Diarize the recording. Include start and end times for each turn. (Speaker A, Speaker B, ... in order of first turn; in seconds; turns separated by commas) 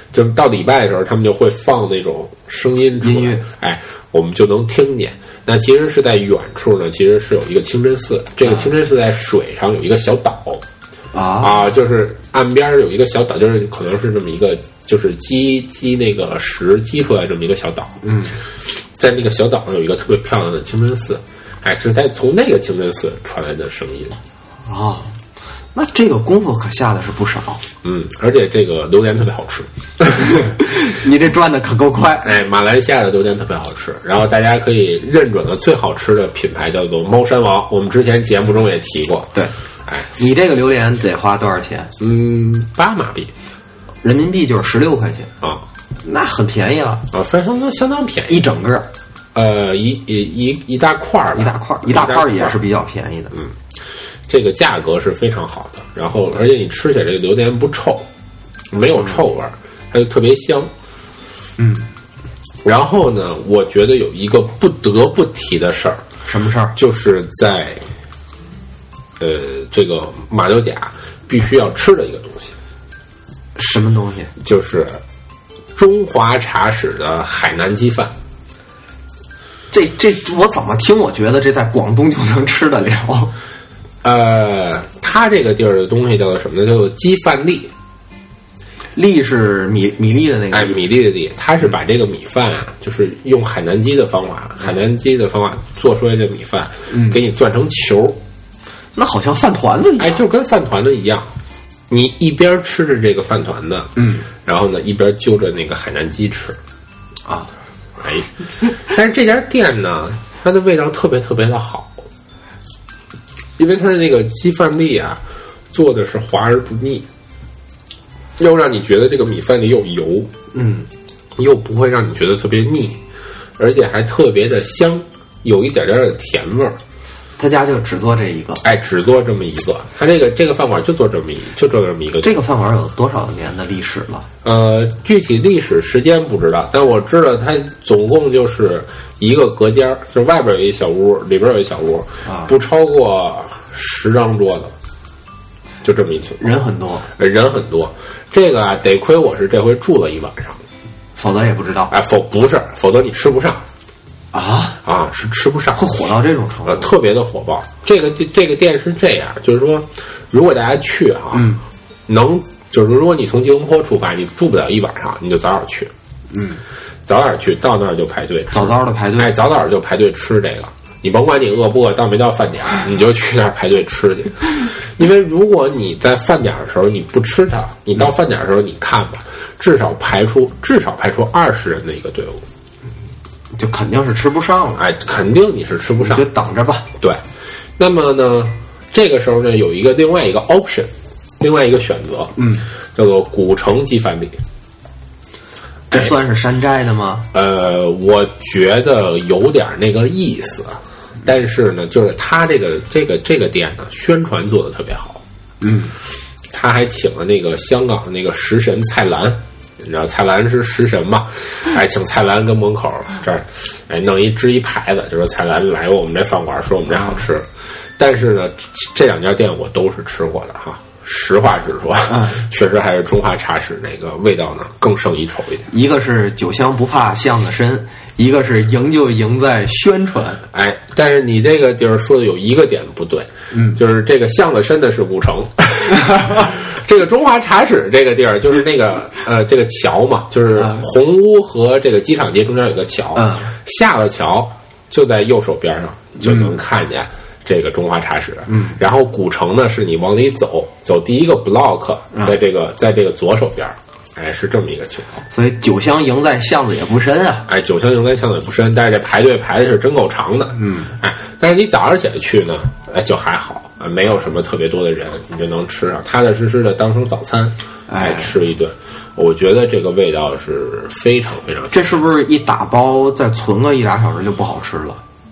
Speaker A: 0.1-10.6, Speaker B: 3.0-3.4, Speaker B: 11.1-11.7, Speaker A: 11.4-18.0, Speaker B: 18.0-18.3, Speaker A: 18.6-24.2, Speaker B: 24.6-25.1, Speaker B: 25.7-27.6, Speaker A: 27.8-29.7, Speaker B: 30.1-32.3, Speaker A: 32.2-39.3, Speaker B: 40.2-41.9, Speaker A: 42.0-43.3, Speaker B: 44.0-45.3, Speaker B: 46.0-47.0, Speaker A: 47.1-48.4, Speaker B: 48.3-48.9, Speaker A: 49.3-52.6, Speaker B: 51.3-53.3, Speaker A: 54.3-58.1, Speaker A: 58.7-60.7, Speaker B: 61.6-61.9, Speaker A: 62.6-66.0, Speaker B: 66.2-66.8, Speaker A: 66.7-67.8, Speaker A: 69.2-72.5, Speaker B: 73.5-74.3, Speaker A: 74.4-75.0, Speaker A: 75.7-78.1, Speaker B: 79.7-83.3, Speaker A: 84.0-87.7, Speaker B: 89.0-90.8, Speaker A: 90.5-98.2, Speaker B: 96.9-97.2, Speaker B: 99.0-100.2, Speaker A: 100.0-101.3, Speaker A: 101.9-103.9, Speaker B: 104.0-104.3, Speaker A: 104.4-106.6, Speaker A: 108.0-112.0, Speaker A: 113.6-117.0, Speaker A: 118.4-120.3, Speaker B: 120.5-120.9, Speaker A: 121.4-123.0, Speaker A: 123.6-126.8, Speaker B: 127.4-128.6, Speaker A: 128.6-132.3, Speaker B: 132.2-134.3, Speaker A: 134.4-144.7, Speaker A: 145.8-146.6, Speaker B: 146.4-147.1, Speaker A: 147.2-150.6, Speaker B: 151.2-151.9, Speaker A: 151.9-153.6, Speaker B: 154.3-154.8, Speaker A: 154.8-155.8, Speaker B: 155.7-156.9, Speaker A: 156.7-161.5, Speaker B: 161.3-161.6, Speaker A: 162.1-165.9, Speaker B: 166.3-166.6, Speaker A: 167.1-182.4, Speaker B: 168.5-169.3, Speaker B: 183.5-184.8, Speaker A: 184.8-186.3, Speaker B: 186.0-186.9, Speaker A: 187.8-192.4, Speaker B: 192.4-192.6, Speaker A: 192.9-194.4, Speaker A: 195.9-196.2, Speaker B: 195.9-197.3, Speaker A: 197.3-205.2, Speaker B: 205.6-205.9, Speaker A: 206.5-225.7, Speaker B: 222.1-222.4, Speaker B: 225.7-230.4, Speaker A: 230.5-255.2, Speaker B: 233.5-233.8, Speaker B: 243.1-243.5, Speaker B: 246.2-246.6, Speaker B: 248.5-248.8, Speaker B: 255.3-257.5, Speaker A: 257.5-272.0, Speaker B: 260.6-260.9, Speaker B: 267.9-268.4, Speaker B: 271.7-275.0